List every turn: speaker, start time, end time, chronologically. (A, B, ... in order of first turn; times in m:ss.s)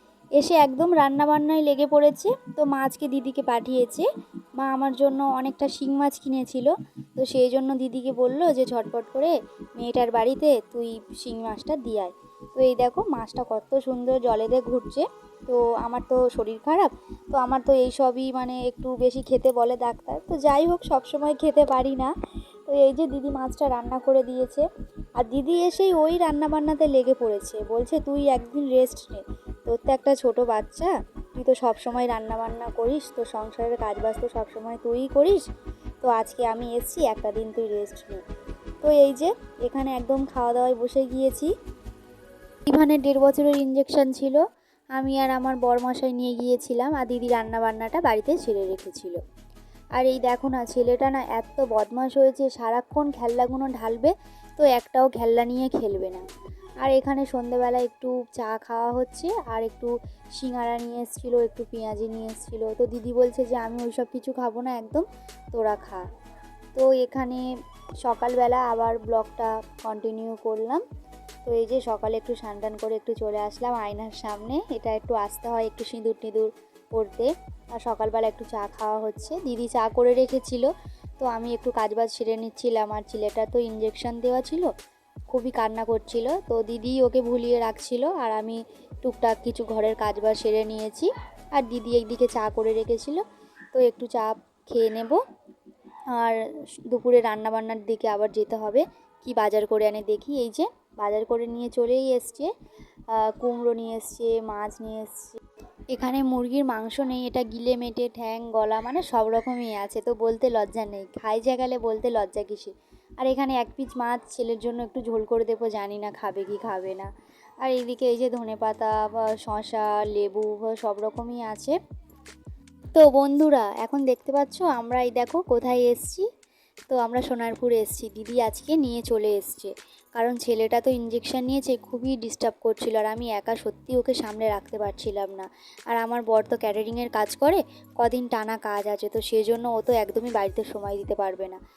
0:00.4-0:22.1 A
0:22.7-0:24.7 A
0:25.2-0:35.4 A
0:36.0-0:38.2 A
0:38.8-0:41.5 A
0:42.7-0:44.4 A
0:45.0-0:49.2 A
0:50.0-0:56.2 A
0:56.8-1:06.0 A
1:06.8-1:07.4 A
1:08.0-1:10.8 A
1:11.4-1:24.7 A
1:25.3-1:33.2 A
1:33.7-1:35.2 A
1:36.1-1:36.4 A
1:36.9-1:42.5 A
1:43.1-1:45.4 A
1:45.9-1:57.1 A
1:57.6-2:01.8 A
2:03.0-2:06.3 A
2:06.9-2:21.6 A